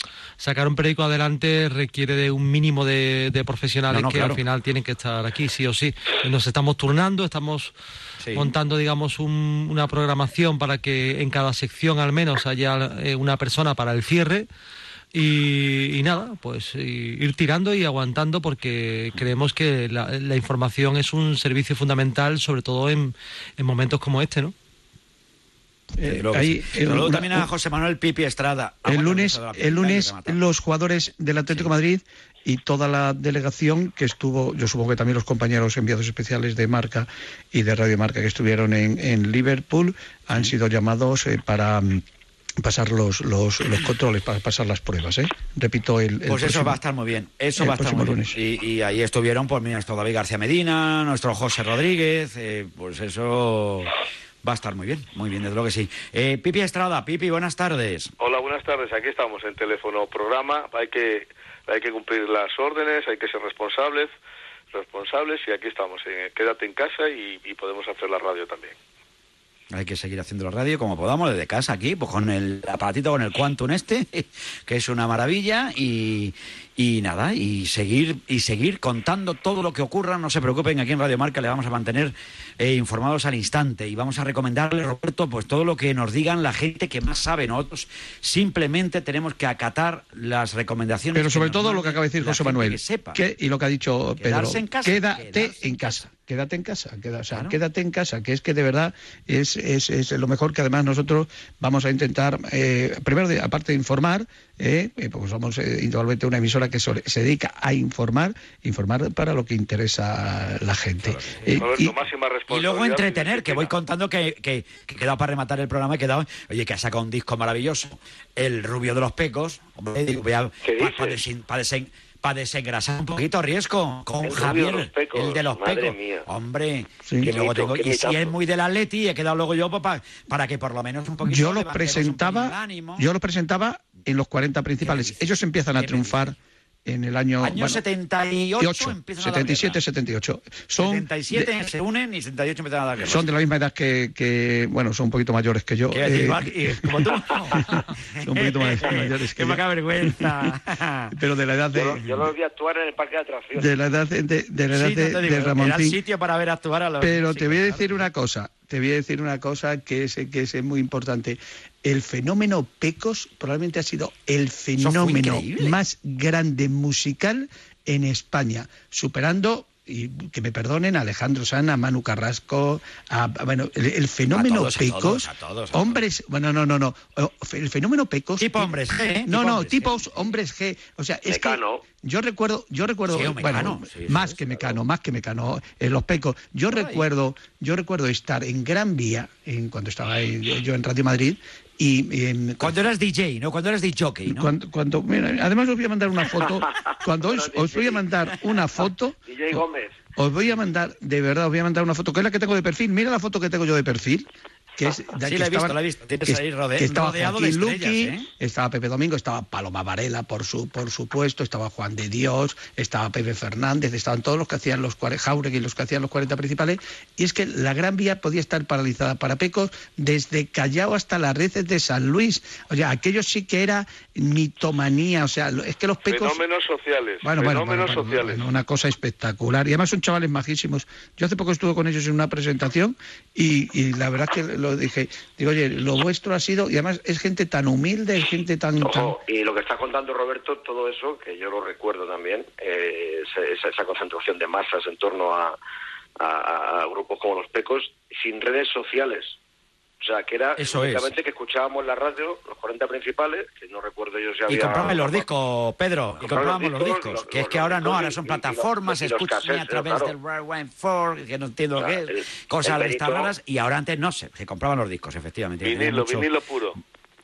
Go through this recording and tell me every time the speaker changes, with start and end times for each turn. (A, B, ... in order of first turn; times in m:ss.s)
0:00.4-0:07.7 A
0:03.9-0:04.4 B
0:08.2-0:08.5 B
0:08.3-0:14.5 A
0:15.1-0:24.5 A
0:26.0-0:27.5 C
0:26.0-0:30.4 B
0:28.8-0:42.0 C
0:42.6-0:46.8 C
0:46.3-0:58.1 B
0:47.6-0:48.3 C
0:58.2-1:04.1 D
1:04.7-1:08.7 D
1:09.7-1:33.2 B
1:31.1-1:51.9 C
1:34.2-1:36.1 B
1:37.3-1:37.6 B
1:51.0-1:51.4 B
1:51.6-1:53.7 D
1:52.5-2:13.1 B
2:00.6-2:01.2 E
2:04.2-2:06.3 E
2:07.2-2:08.3 E
2:11.2-2:16.3 C
2:14.8-2:16.3 B
2:16.8-2:17.8 C
2:17.4-2:19.8 B
2:18.6-2:21.5 C
2:20.8-2:23.2 B
2:23.0-2:26.5 C
2:25.9-2:27.7 B
2:27.6-2:30.3 C
2:28.3-2:31.1 B
2:31.2-2:32.1 C
2:31.8-2:33.7 E
2:33.5-2:36.0 C
2:34.7-2:37.8 B
2:37.0-2:58.7 C
2:44.8-2:45.7 B
2:54.3-2:56.0 B
2:58.4-3:00.0 B
2:59.2-3:12.7 C
3:01.3-3:01.8 E
3:03.1-3:04.7 B
3:06.7-3:07.0 B
3:12.6-3:14.5 B
3:14.3-3:19.6 C
3:17.2-3:18.1 E
3:19.2-3:19.9 E
3:20.2-3:24.3 C
3:24.8-3:46.4 C
3:25.2-3:28.3 B
3:46.0-3:48.4 D
3:47.2-3:59.2 C
3:58.8-4:05.6 E
4:06.2-4:09.4 E
4:10.0-4:15.3 E
4:10.6-4:11.1 B
4:14.5-4:26.3 B
4:16.2-4:20.1 E
4:21.8-4:23.3 E
4:25.6-4:26.8 D